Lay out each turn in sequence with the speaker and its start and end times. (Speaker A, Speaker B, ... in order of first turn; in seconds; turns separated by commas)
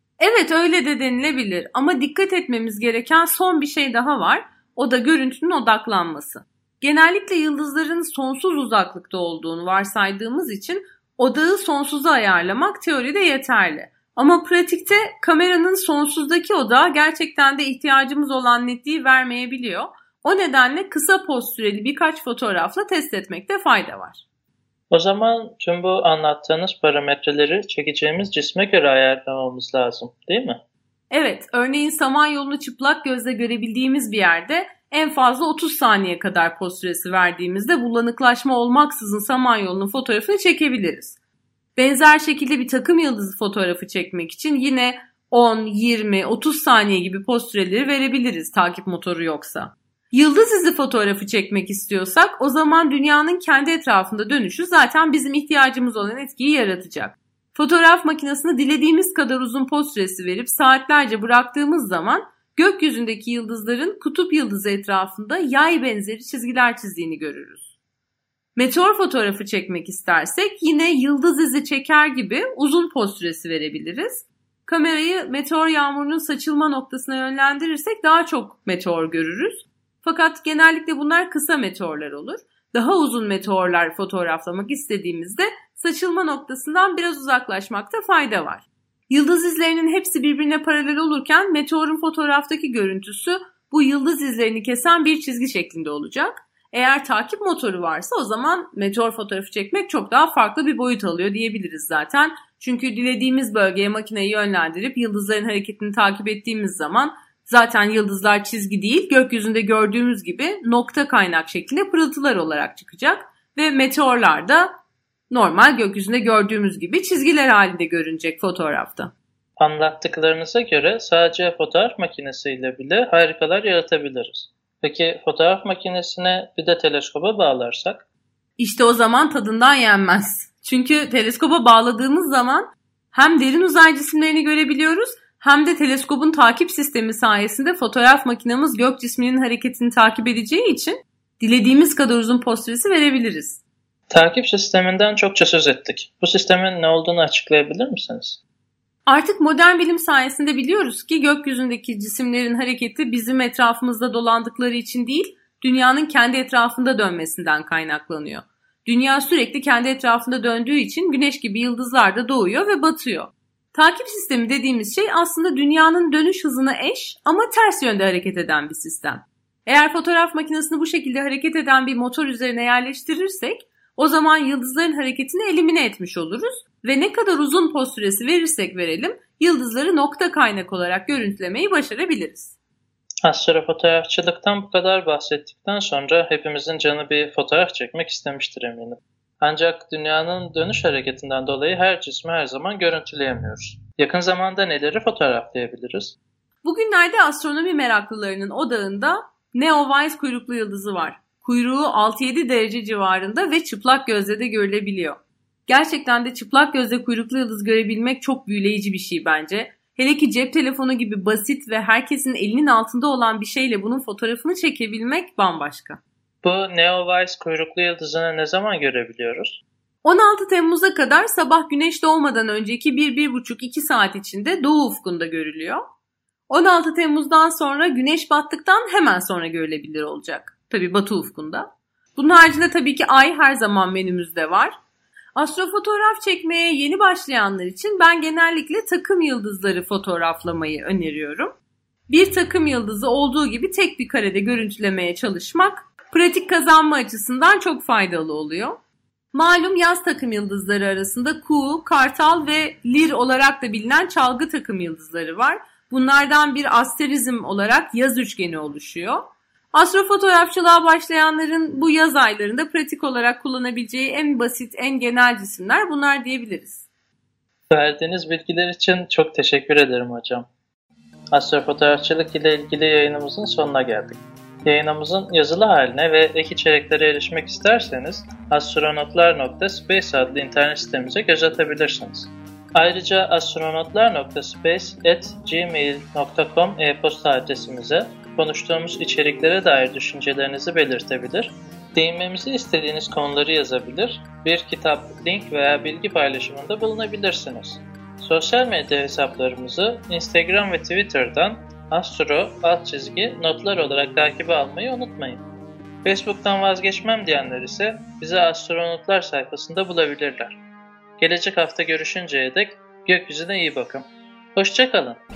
Speaker A: 0.2-24.2, Speaker B: 24.9-30.6, Speaker A: 31.1-41.1, Speaker A: 41.8-67.7, Speaker A: 68.5-114.7, Speaker A: 115.3-119.1, Speaker B: 119.6-128.0, Speaker A: 128.6-143.6, Speaker B: 144.1-148.4, Speaker A: 149.1-182.6, Speaker B: 183.2-196.2, Speaker A: 196.6-216.0, Speaker B: 216.4-219.6, Speaker A: 220.0-225.8, Speaker A: 226.5-234.8, Speaker A: 235.3-241.5, Speaker A: 242.1-248.8, Speaker A: 249.3-266.9, Speaker B: 267.7-270.4, Speaker B: 271.3-305.4, Speaker B: 306.0-310.6, Speaker B: 311.2-315.2